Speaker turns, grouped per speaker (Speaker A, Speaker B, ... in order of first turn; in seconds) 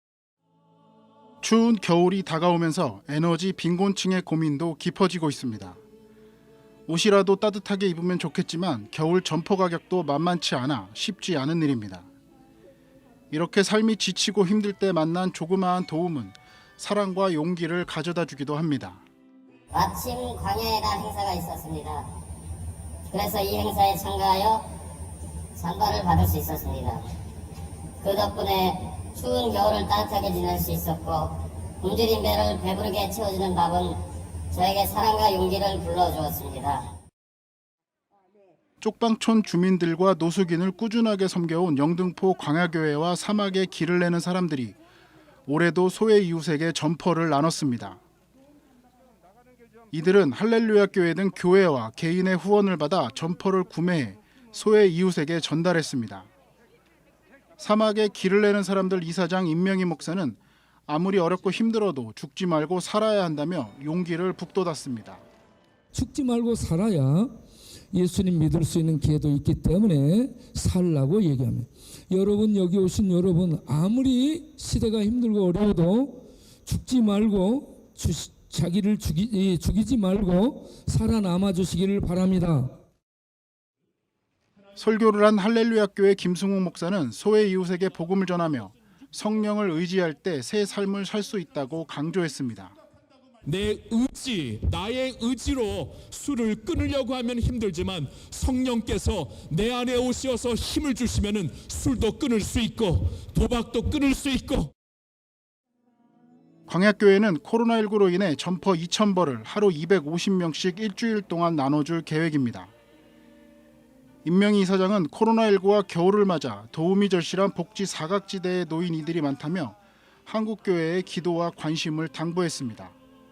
Speaker A: 1.4-5.8, 6.9-12.1, 13.3-19.0, 38.8-44.8, 45.5-48.0, 49.9-56.3, 57.6-65.2, 84.8-92.7, 106.7-112.7, 114.2-123.0
Speaker B: 19.7-22.1, 23.1-24.6, 25.6-27.0, 28.0-34.0, 34.5-36.8
Speaker C: 65.9-67.3, 67.9-82.7
Speaker D: 93.4-104.7